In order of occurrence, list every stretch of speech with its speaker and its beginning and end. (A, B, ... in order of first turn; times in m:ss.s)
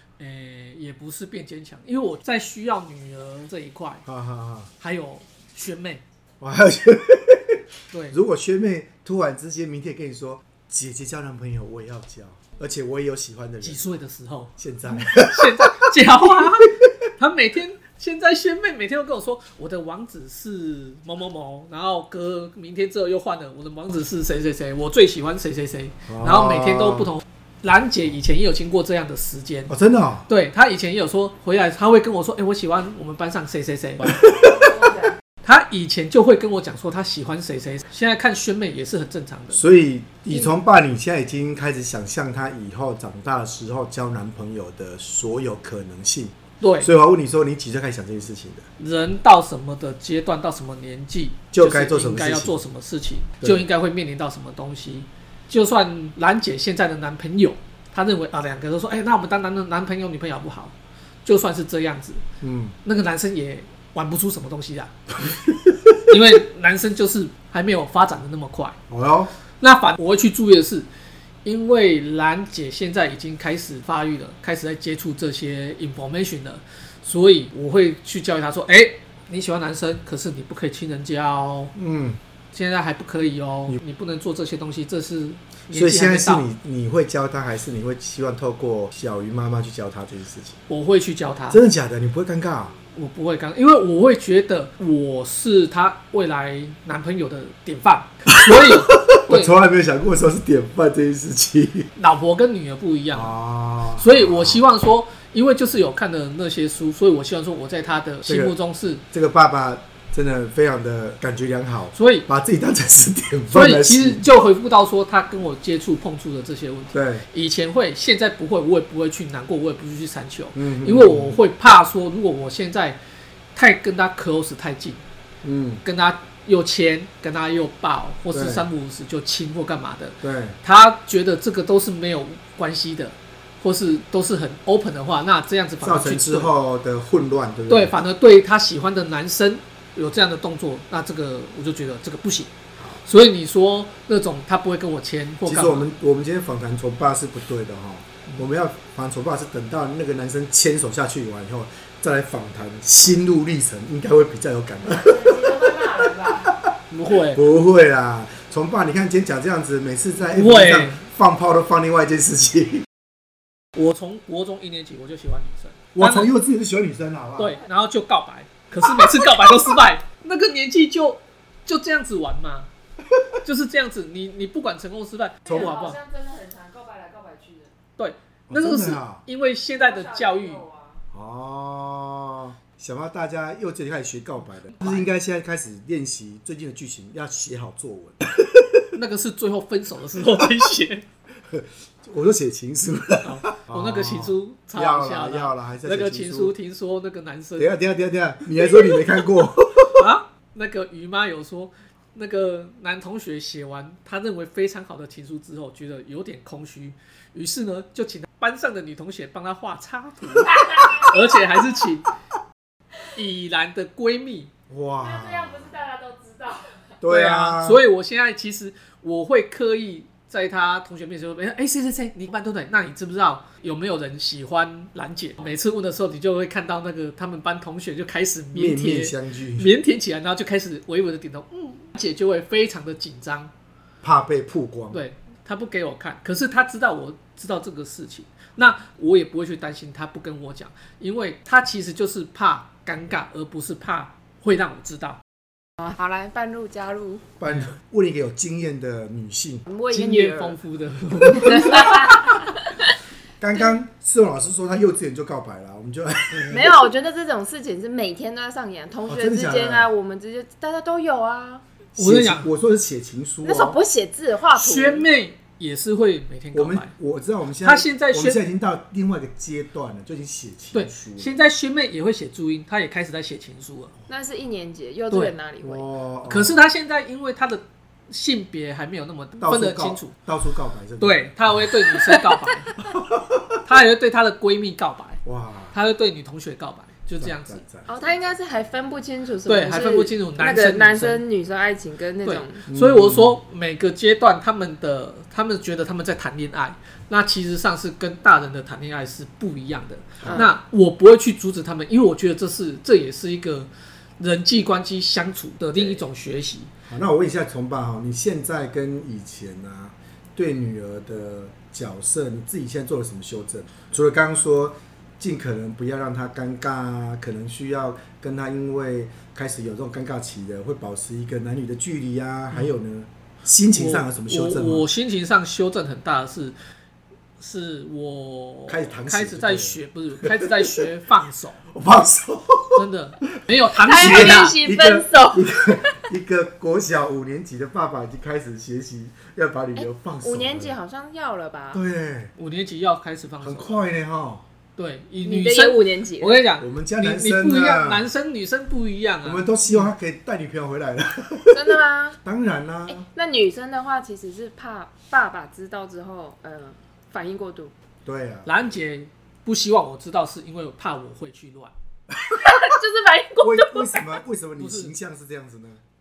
0:00.2-0:04.0 A
0:04.1-0:04.7 B
0:04.8-0:06.0 A
0:06.4-0:14.0 B
0:07.9-0:08.2 A
0:13.6-0:29.7 A
0:14.6-0:16.5 B
0:26.1-0:27.1 B
0:29.7-0:30.3 B
0:30.3-0:34.2 A
0:34.0-0:34.8 B
0:34.4-0:35.1 C
0:35.4-0:39.6 A
0:39.5-0:48.7 B
0:46.6-0:46.9 A
0:48.8-1:02.2 A
0:51.5-0:52.6 B
0:53.4-0:53.7 B
1:02.4-1:02.8 B
1:02.8-1:04.9 A
1:05.2-1:06.2 B
1:06.1-1:08.8 A
1:08.9-1:09.3 B
1:09.6-1:10.9 A
1:11.4-1:21.7 A
1:21.8-1:22.2 B
1:22.5-1:26.5 A
1:25.7-1:30.6 B
1:30.7-1:31.6 A
1:31.5-1:32.8 B
1:32.9-1:39.5 A
1:38.3-1:41.9 B
1:42.0-1:43.4 A
1:43.1-1:44.6 B
1:44.0-1:49.0 A
1:48.3-1:54.3 B
1:51.9-1:52.3 A
1:53.5-2:03.0 A
1:56.9-1:57.3 B
2:00.6-2:01.4 B
2:03.6-2:05.0 A
2:05.4-2:05.8 B
2:05.8-2:16.5 A
2:08.3-2:08.7 B
2:10.2-2:10.6 B
2:15.8-2:18.0 B
2:17.7-2:25.9 A
2:25.4-2:36.7 B
2:35.0-2:36.2 C
2:36.9-2:37.4 A
2:37.2-2:42.9 B
2:40.2-2:41.0 A
2:43.8-2:46.3 A
2:45.9-2:47.6 B
2:47.4-2:52.7 A
2:53.4-2:56.0 A
2:55.5-2:55.8 B
2:55.5-2:57.7 C
2:58.0-3:00.6 A
2:58.5-2:59.2 B
2:59.6-3:01.0 C
3:01.1-3:08.8 B
3:04.6-3:05.1 A
3:08.9-3:11.0 A
3:11.5-3:16.6 B
3:13.2-3:17.7 A
3:17.6-3:20.0 B
3:19.9-3:32.1 A
3:30.5-3:31.2 C
3:33.1-3:34.5 A
3:34.7-3:35.8 B
3:35.0-3:37.0 C
3:37.0-3:37.8 B
3:37.1-3:53.5 A
3:48.5-3:49.7 B
3:54.0-3:55.0 B
3:54.9-4:05.2 A
4:05.8-4:07.3 C
4:07.4-4:09.7 B
4:07.4-4:07.8 A
4:09.7-4:10.6 C
4:09.9-4:12.4 A
4:11.5-4:12.7 C
4:13.4-4:16.8 B
4:16.5-4:21.6 C
4:19.1-4:19.9 B
4:22.0-4:23.8 B
4:22.0-4:22.5 A
4:23.4-4:25.1 C
4:24.5-4:26.9 A
4:26.5-4:31.4 B
4:27.6-4:28.4 A
4:30.7-4:33.9 A
4:34.1-4:35.9 C
4:35.6-4:36.6 B
4:36.2-4:40.2 A
4:39.4-4:41.7 B
4:41.0-4:42.8 A
4:42.8-4:43.6 B
4:43.6-4:47.6 A
4:45.2-4:45.8 B
4:47.2-4:48.0 B
4:47.9-4:52.6 C
4:49.5-4:51.2 A
4:52.2-5:06.7 A
4:52.7-4:53.4 B
5:00.2-5:00.5 B
5:00.2-5:00.5 C
5:06.9-5:24.9 B
5:23.7-5:26.6 A
5:27.4-5:31.7 A
5:28.7-5:30.8 B
5:31.7-5:32.8 B
5:32.8-5:34.6 A
5:33.7-5:40.8 B
5:33.8-5:36.0 C
5:39.8-5:41.8 C
5:41.7-5:42.3 B
5:42.4-5:43.7 A
5:43.4-5:44.4 B
5:44.8-5:49.9 A
5:45.2-5:46.6 C
5:46.6-5:48.1 B
5:49.2-5:53.1 B
5:51.5-5:52.2 C
5:52.9-5:57.7 C
5:58.0-5:58.7 B
5:58.4-6:01.7 A
6:02.3-6:04.2 C
6:03.4-6:05.8 B
6:04.6-6:04.9 A